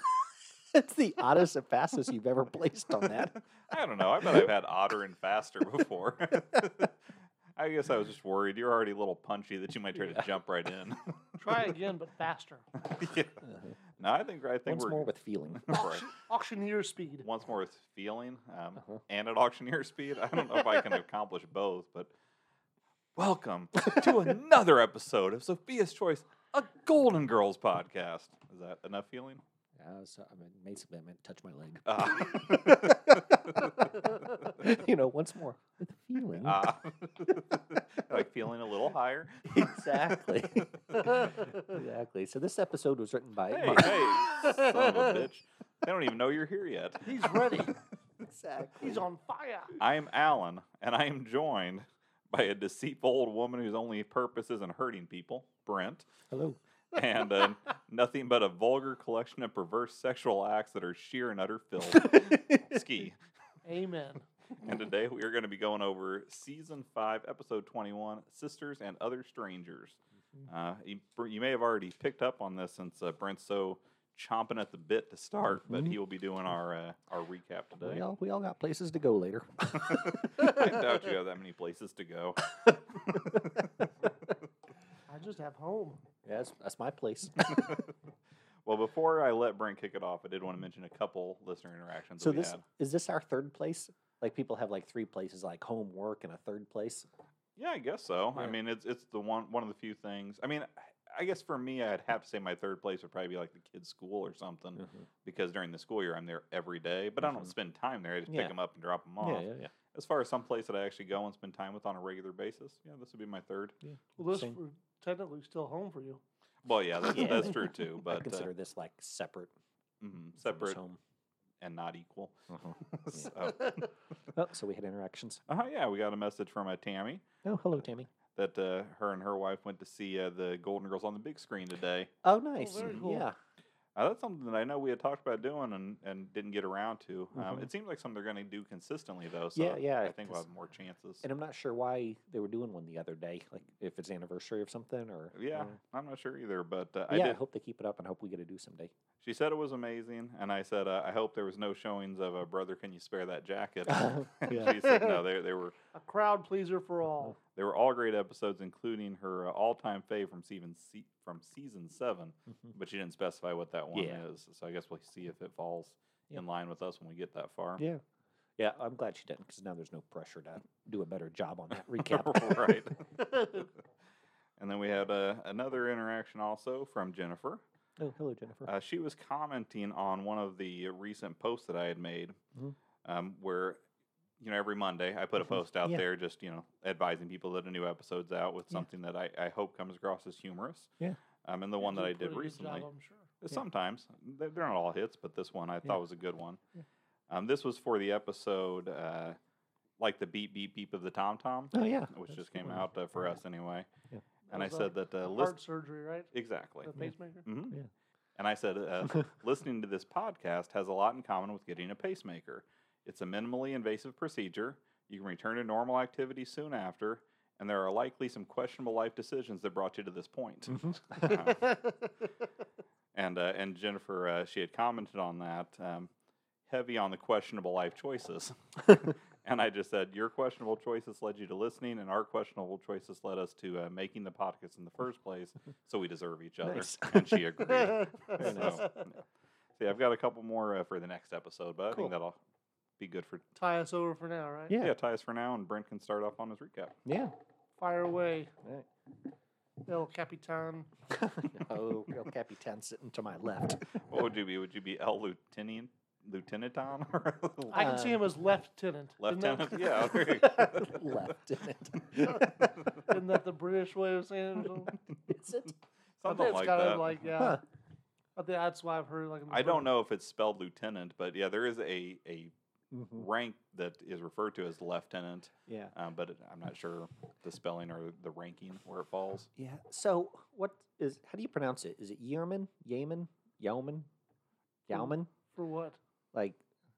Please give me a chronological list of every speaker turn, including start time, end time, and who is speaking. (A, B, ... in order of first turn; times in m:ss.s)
0:00.7-0:03.4 A
0:03.7-0:07.0 B
0:07.6-0:11.4 B
0:11.4-0:12.7 C
0:12.8-0:13.4 B
0:14.0-0:16.1 B
0:14.7-0:15.8 A
0:15.7-0:17.3 C
0:17.2-0:22.1 B
0:23.2-0:29.4 B
0:29.8-0:36.7 A
0:31.9-0:34.5 B
0:36.4-0:41.4 B
0:39.5-0:44.2 A
0:41.1-0:41.3 C
0:43.5-0:47.7 B
0:44.4-0:44.9 C
0:47.0-0:47.7 C
0:48.2-0:49.0 A
0:48.8-0:49.8 C
0:49.8-0:56.1 B
0:56.3-0:56.6 A
0:56.9-1:03.2 B
1:02.0-1:02.8 A
1:03.6-1:04.3 C
1:04.6-1:18.0 B
1:15.7-1:15.9 A
1:17.8-1:20.7 A
1:19.8-1:23.9 B
1:22.7-1:23.4 A
1:25.1-1:26.0 C
1:26.2-1:27.8 A
1:27.5-1:27.8 B
1:28.6-1:32.6 B
1:32.2-1:37.1 A
1:37.6-1:53.8 B
1:44.8-1:45.1 A
1:47.2-1:47.5 A
1:48.3-1:48.5 A
1:49.2-1:49.7 A
1:53.8-1:54.6 A
1:54.2-1:56.2 C
1:56.6-1:58.5 B
1:57.1-1:59.5 A
2:00.0-2:00.8 B
2:00.4-2:01.0 A
2:01.6-2:03.9 B
2:02.5-2:03.4 A
2:04.3-2:05.4 A
2:05.5-2:07.2 B
2:07.4-2:08.1 A
2:08.4-2:12.1 B
2:12.2-2:13.4 A
2:12.6-2:13.3 C
2:14.0-2:21.2 B
2:17.4-2:17.7 A
2:19.6-2:20.4 A
2:21.2-2:25.7 A
2:25.4-2:27.4 B
2:27.1-2:28.9 A
2:29.2-2:35.8 B
2:33.9-2:34.8 A
2:35.9-2:37.4 C
2:37.6-2:47.8 B
2:43.9-2:44.2 A
2:48.6-2:52.9 A
2:51.9-2:53.7 B
2:54.6-2:57.6 B
2:58.0-2:58.7 A
2:58.7-3:02.4 B
3:03.0-3:03.8 B
3:04.4-3:10.9 B
3:11.4-3:12.9 B
3:11.8-3:13.3 C
3:13.4-3:16.6 B
3:17.3-3:19.4 B
3:20.0-3:23.9 B
3:21.7-3:22.8 A
3:24.5-3:26.3 C
3:24.5-3:25.6 B
3:26.3-3:26.9 B
3:26.8-3:27.5 C
3:27.4-3:27.8 B
3:28.4-3:41.8 B
3:43.1-3:46.1 B
3:46.7-3:59.1 B
3:56.6-3:58.9 A
3:57.7-3:59.0 C
3:59.8-4:02.4 B
4:03.0-4:03.5 B
4:03.6-4:04.8 C
4:04.7-4:04.9 A
4:04.8-4:07.0 B
4:07.0-4:07.3 A
4:07.8-4:08.5 C
4:09.9-4:10.9 C
4:11.1-4:13.8 A
4:14.1-4:17.9 B
4:17.7-4:20.2 C
4:17.7-4:18.3 A
4:19.2-4:21.2 B
4:20.2-4:22.9 A
4:23.1-4:25.0 C
4:25.3-4:25.8 A
4:26.2-4:27.2 B
4:26.2-4:27.6 C
4:27.4-4:27.6 A
4:28.4-4:29.9 C
4:29.5-4:32.5 B
4:32.9-4:33.3 A
4:33.1-4:39.5 B
4:35.7-4:35.9 A
4:39.6-4:44.1 A
4:44.9-4:45.3 A
4:45.5-4:46.0 C
4:46.3-4:46.6 A